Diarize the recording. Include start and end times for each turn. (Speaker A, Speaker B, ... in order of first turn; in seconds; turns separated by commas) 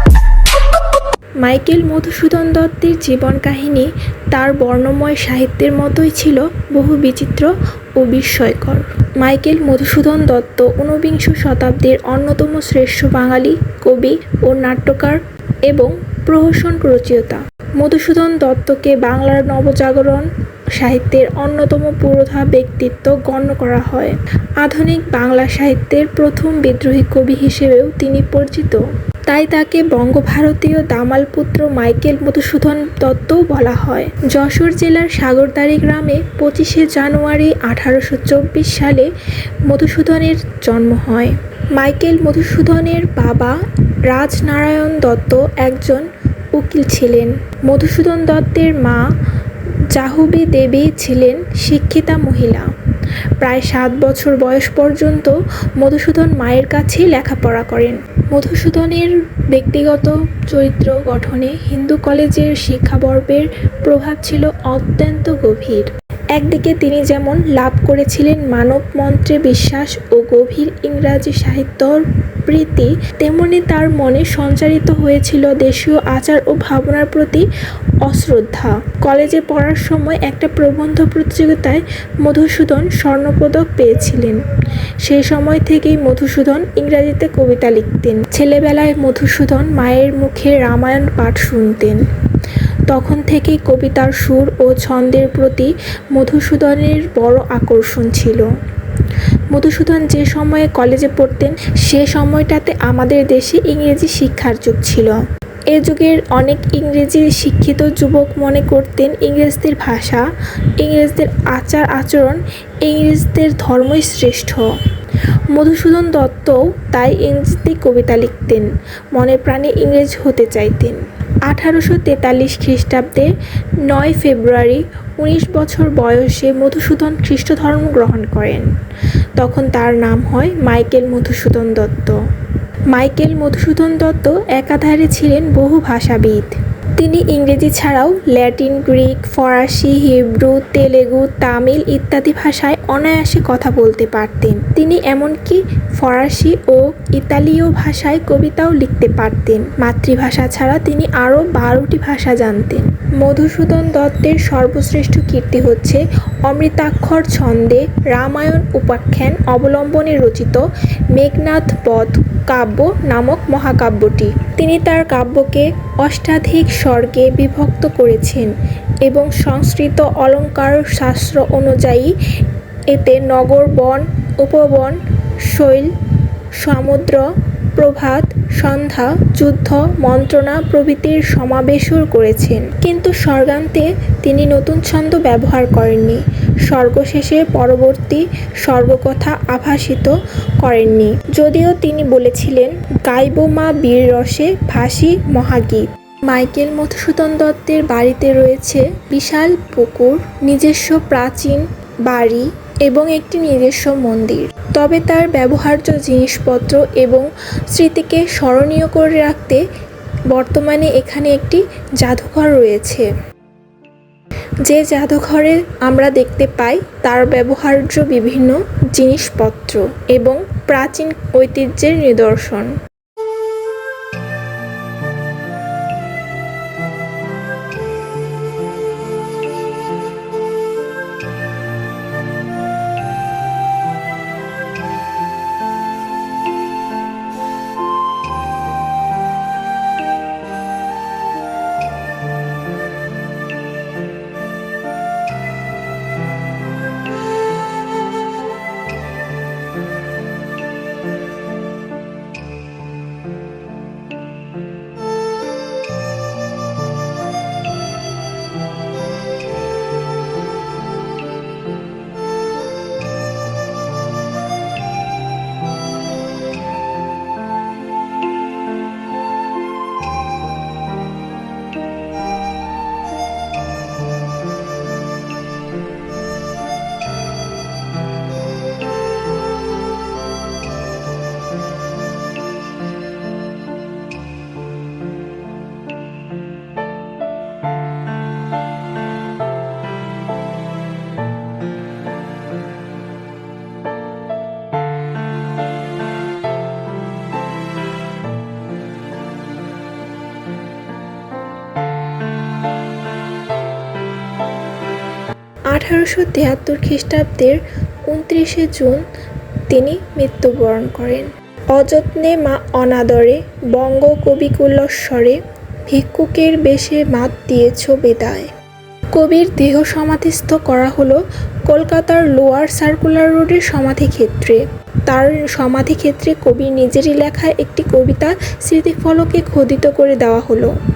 Speaker A: 1.4-39.1, Speaker A: 39.7-49.0, Speaker A: 49.9-52.7, Speaker A: 53.4-77.5, Speaker A: 78.0-84.5, Speaker A: 85.0-98.5, Speaker A: 99.0-105.2, Speaker A: 105.7-110.2, Speaker A: 110.8-114.7, Speaker A: 115.5-123.3, Speaker A: 123.8-128.7, Speaker A: 129.4-132.2, Speaker A: 132.9-160.6, Speaker A: 161.1-168.5, Speaker A: 169.0-172.1, Speaker A: 172.9-209.6, Speaker A: 210.3-213.1, Speaker A: 214.7-222.7, Speaker A: 305.7-309.0, Speaker A: 309.7-318.5, Speaker A: 319.1-330.7